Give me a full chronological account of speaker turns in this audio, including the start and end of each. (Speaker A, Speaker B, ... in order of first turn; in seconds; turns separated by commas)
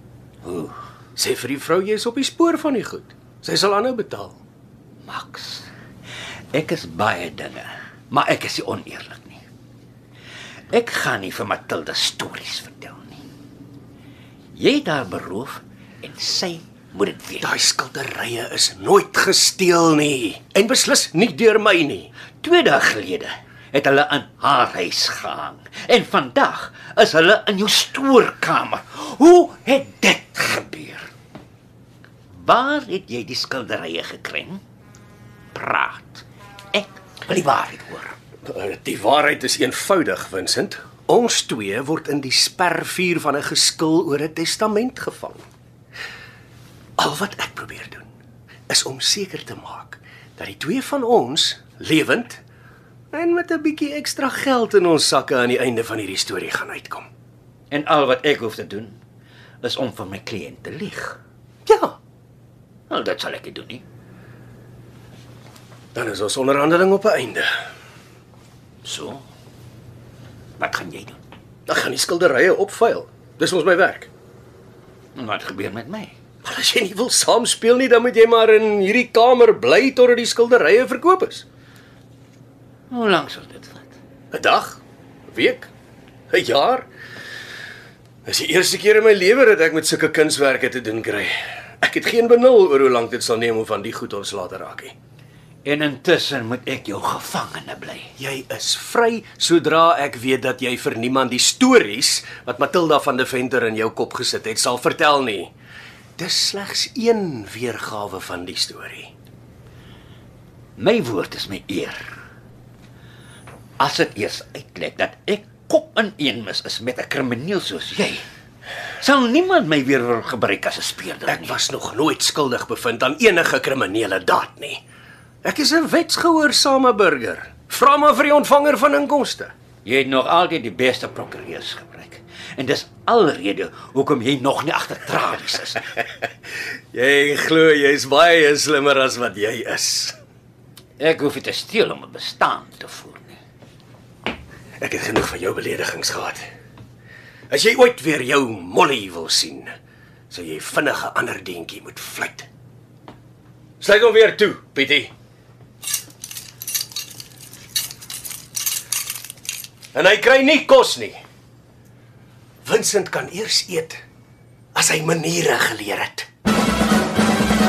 Speaker A: 0.4-0.8, Speaker B: 1.2-4.4, Speaker A: 5.0-5.7, Speaker A: 6.5-9.4, Speaker A: 10.7-13.2, Speaker A: 14.5-17.5, Speaker B: 17.4-22.1, Speaker A: 22.4-31.1, Speaker A: 32.3-34.6, Speaker A: 35.5-38.1, Speaker B: 38.5-45.5, Speaker B: 47.0-48.1, Speaker B: 48.7-52.4, Speaker B: 53.1-57.1, Speaker A: 57.7-59.0, Speaker A: 59.6-61.2, Speaker B: 61.7-62.0, Speaker A: 62.9-63.8, Speaker B: 65.9-67.5, Speaker A: 68.8-69.2, Speaker A: 70.6-71.2, Speaker B: 71.7-74.1, Speaker A: 75.2-76.1, Speaker B: 76.4-81.5, Speaker A: 82.9-83.9, Speaker B: 84.3-85.7, Speaker B: 86.3-86.9, Speaker B: 88.3-95.0, Speaker A: 95.6-98.1, Speaker B: 98.2-105.5, Speaker B: 106.2-109.1, Speaker A: 110.8-112.1, Speaker A: 113.8-118.2, Speaker A: 119.0-121.6, Speaker B: 121.3-124.8, Speaker B: 125.4-129.5, Speaker A: 129.8-135.9, Speaker B: 136.9-140.2, Speaker A: 141.0-143.4, Speaker B: 144.8-146.4, Speaker B: 147.5-149.7, Speaker B: 150.3-152.5, Speaker B: 153.8-155.1, Speaker B: 159.9-161.2, Speaker B: 162.7-164.0, Speaker B: 164.8-166.3